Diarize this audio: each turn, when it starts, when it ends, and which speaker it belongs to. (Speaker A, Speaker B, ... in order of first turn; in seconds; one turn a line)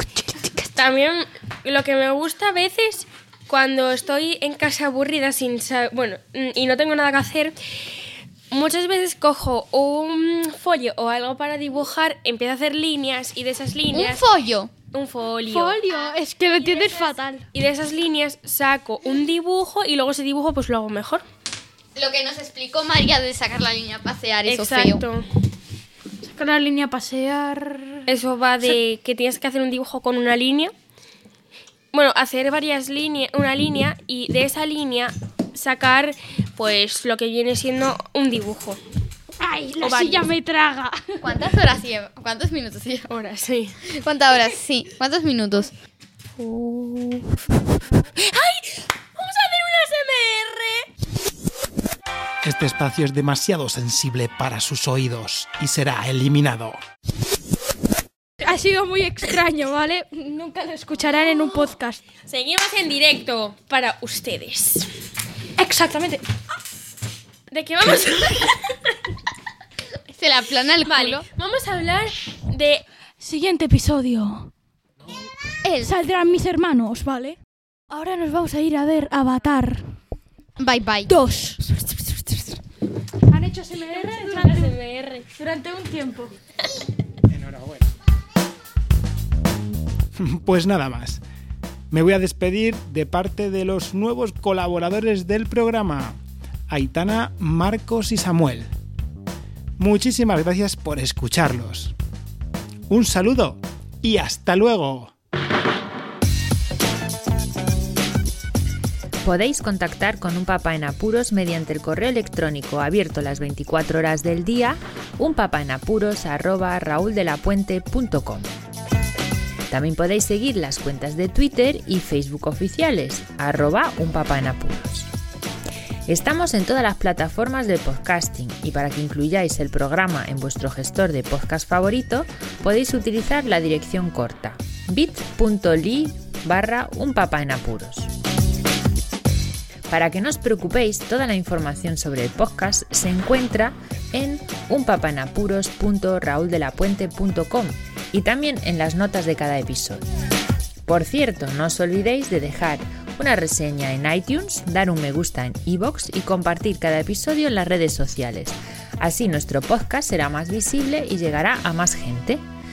Speaker A: 0.5-7.6
Speaker A: 8.5-14.2
Speaker B: 13.9-14.7
Speaker A: 14.9-15.8
Speaker C: 15.5-17.5
Speaker A: 16.6-21.2
Speaker B: 21.9-25.0
Speaker A: 24.5-25.3
Speaker C: 26.2-28.1
Speaker A: 28.1-30.7
Speaker A: 31.9-38.8
Speaker C: 39.4-41.3
Speaker A: 39.8-40.3
Speaker B: 41.2-43.2
Speaker A: 43.1-43.8
Speaker B: 43.9-45.7
Speaker A: 46.8-47.2
Speaker A: 48.1-50.9
Speaker D: 52.4-56.8
Speaker C: 58.4-62.0
Speaker A: 62.3-64.9
Speaker C: 65.6-66.2
Speaker A: 67.5-68.9
Speaker B: 70.1-71.2
Speaker A: 70.8-72.8
Speaker C: 73.2-74.5
Speaker B: 75.6-75.9
Speaker C: 75.8-77.4
Speaker C: 77.9-79.9
Speaker B: 80.6-81.1
Speaker C: 81.1-82.6
Speaker C: 83.3-84.7
Speaker A: 83.9-85.3
Speaker C: 85.3-86.3
Speaker D: 87.3-87.8
Speaker D: 90.2-91.2
Speaker D: 91.9-98.7
Speaker D: 99.8-102.0
Speaker D: 102.9-105.1
Speaker E: 109.2-118.5
Speaker E: 119.7-125.1
Speaker E: 126.1-138.1
Speaker E: 139.9-150.0
Speaker E: 150.9-162.4